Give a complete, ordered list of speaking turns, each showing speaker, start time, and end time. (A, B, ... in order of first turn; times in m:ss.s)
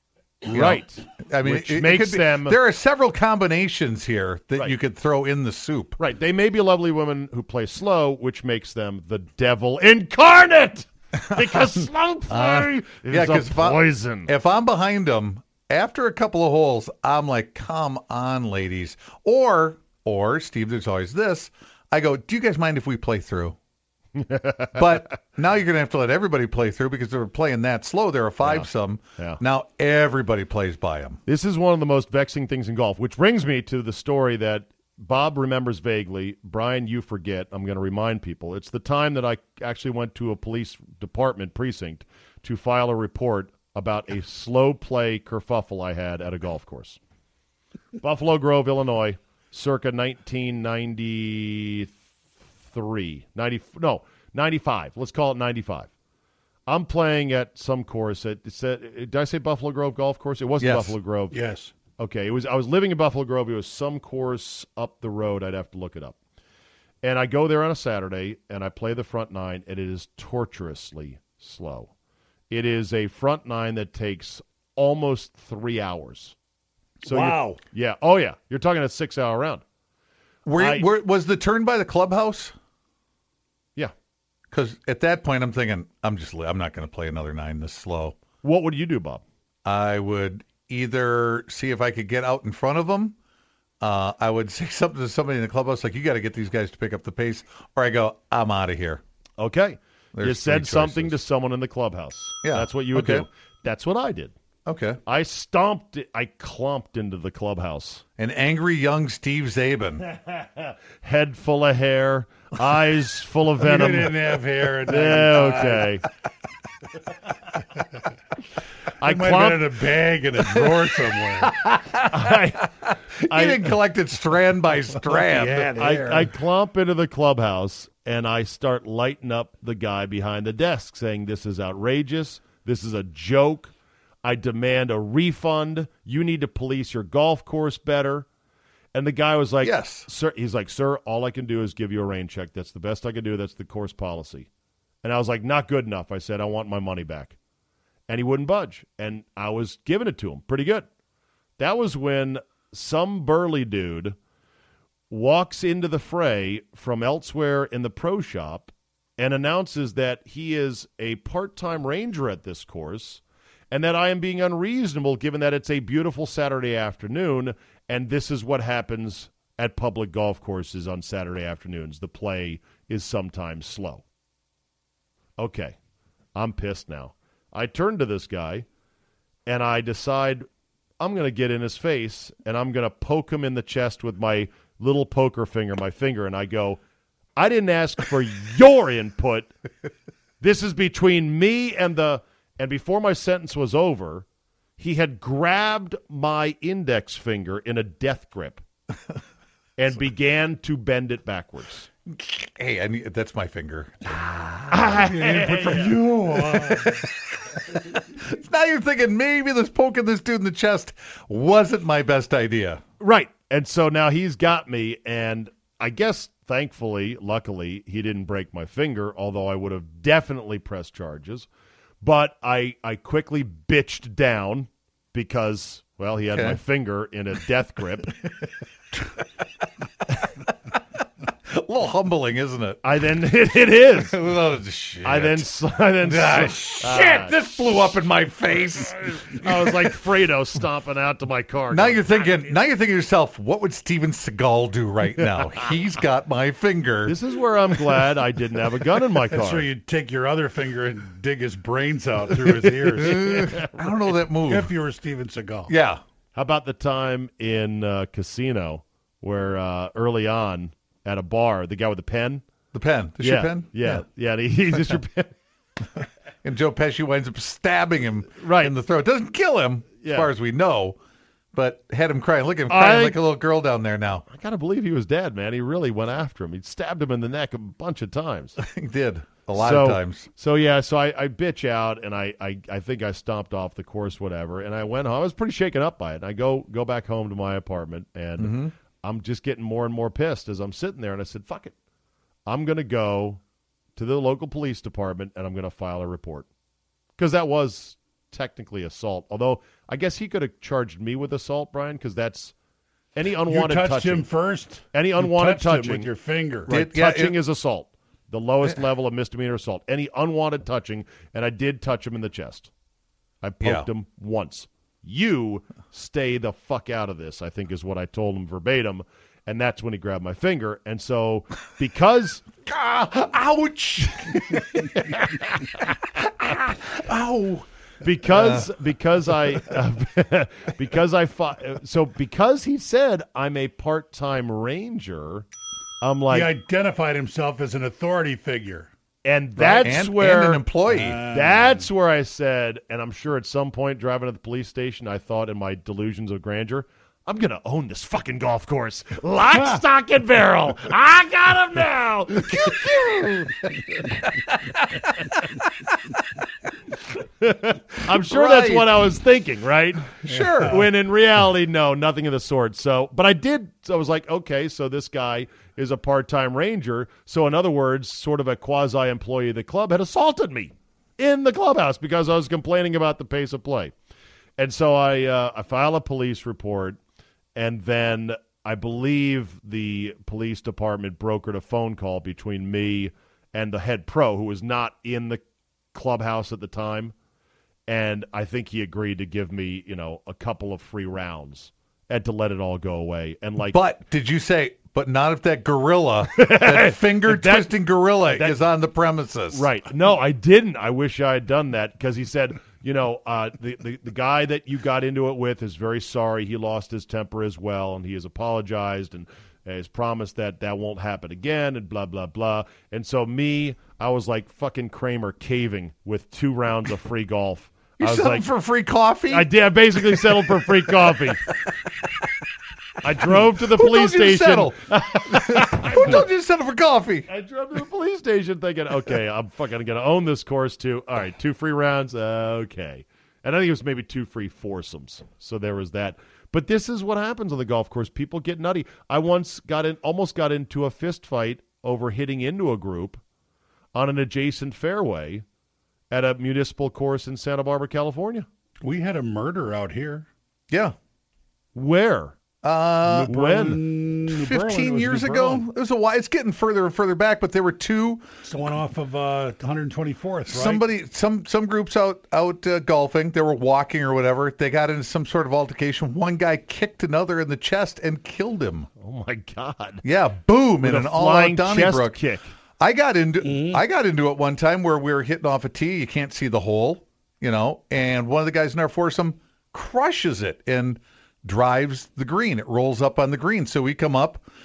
0:00.5-0:06.0 A
0:00.5-0:02.6 B
0:06.0-0:14.3 B
0:12.3-0:23.6 A
0:24.2-0:24.8 B
0:24.8-0:31.2 A
0:28.4-0:29.4 B
0:31.3-0:47.0 B
0:48.0-0:52.0 B
0:52.6-0:55.9 B
0:56.7-1:01.4 B
1:00.6-1:00.9 A
1:01.3-1:01.7 C
1:02.0-1:06.2 B
1:07.0-1:11.9 B
1:12.5-1:16.3 B
1:17.0-1:17.6 C
1:17.0-1:19.6 B
1:20.4-1:22.5 A
1:20.6-1:20.9 B
1:24.5-1:28.2 A
1:28.4-1:29.2 B
1:29.6-1:33.1 A
1:33.8-1:39.0 A
1:39.4-1:44.3 B
1:40.1-1:41.1 A
1:42.4-1:43.2 A
1:44.6-1:45.0 A
1:45.0-1:48.0 B
1:48.2-1:50.0 A
1:50.2-1:54.2 B
1:53.6-1:56.0 C
1:54.8-1:56.0 B
1:59.0-1:59.8 B
1:59.0-2:01.6 C
2:01.6-2:02.7 B
2:03.2-2:06.0 A
2:03.2-2:03.7 B
2:05.1-2:06.3 C
2:05.7-2:13.7 B
2:14.2-2:18.3 B
2:18.9-2:24.5 B
2:19.6-2:20.1 A
2:25.0-2:27.4 B
2:28.1-2:30.9 B
2:31.6-2:34.2 B
2:35.1-2:54.0 B
2:55.4-2:55.8 B
2:56.3-2:58.7 B
2:59.5-3:00.4 B
3:01.0-3:06.8 B
3:07.4-3:09.5 B
3:10.4-3:14.3 B
3:14.8-3:18.6 B
3:19.8-3:21.9 B
3:22.0-3:24.9 A
3:24.7-3:26.0 B
3:24.9-3:27.0 C
3:26.5-3:27.1 A
3:27.7-3:32.8 A
3:33.0-3:41.5 B
3:42.0-3:48.1 B
3:46.3-3:46.6 A
3:51.5-3:52.8 A
3:52.8-3:54.1 B
3:54.1-3:55.4 A
3:55.0-3:57.3 B
3:56.0-3:59.9 A
3:59.4-4:02.0 B
4:01.7-4:07.1 A
4:07.0-4:09.7 B
4:09.3-4:13.5 C
4:13.0-4:13.8 B
4:13.0-4:14.7 A
4:14.5-4:15.7 C
4:15.7-4:16.0 A
4:16.3-4:22.4 B
4:22.7-4:24.0 A
4:23.2-4:25.4 B
4:26.4-4:31.0 A
4:28.4-4:28.7 B
4:30.0-4:30.3 B
4:31.5-4:34.2 A
4:32.7-4:33.2 B
4:34.2-4:38.6 B
4:38.6-4:40.3 A
4:39.5-4:51.7 B
4:48.4-4:48.7 A
4:52.5-4:53.4 B
4:54.0-4:56.5 B
4:57.2-5:02.5 B
5:03.1-5:04.3 B
5:03.5-5:06.7 C
5:04.9-5:06.1 B
5:06.7-5:12.7 B
5:06.7-5:07.4 A
5:13.4-5:22.4 B
5:22.6-5:25.2 A
5:25.1-5:25.8 B
5:26.2-5:27.7 A
5:28.0-5:35.5 B
5:28.2-5:28.7 A
5:36.0-5:36.5 B
5:36.3-5:38.9 C
5:39.2-5:40.6 B
5:39.6-5:41.2 A
5:40.9-5:41.8 C
5:41.3-5:54.2 B
5:54.9-5:55.4 B
5:57.4-6:13.9 B
5:58.1-5:58.8 A
6:00.2-6:00.8 A
6:00.3-6:00.6 C
6:14.6-6:17.0 B
6:17.5-6:25.4 B
6:25.9-6:27.1 B
6:27.9-6:33.8 B
6:33.7-6:39.6 A
6:36.3-6:37.7 B
6:38.3-6:38.6 B
6:39.5-6:58.4 B
6:58.0-6:59.5 A
6:59.3-7:01.4 B
7:00.2-7:00.6 A
7:03.0-7:06.2 B
7:03.3-7:07.3 A
7:07.3-7:23.2 B
7:23.9-7:25.4 B
7:26.1-7:28.5 B
7:28.8-7:30.3 C
7:31.7-7:32.4 B
7:32.6-7:33.4 A
7:33.0-7:33.8 B
7:33.3-7:35.6 C
7:34.2-7:38.3 A
7:38.4-7:40.8 C
7:40.5-7:48.9 A
7:49.0-7:50.0 B
7:50.0-7:52.2 A
7:50.8-7:52.5 B
7:52.8-8:04.4 A
7:53.4-7:53.8 C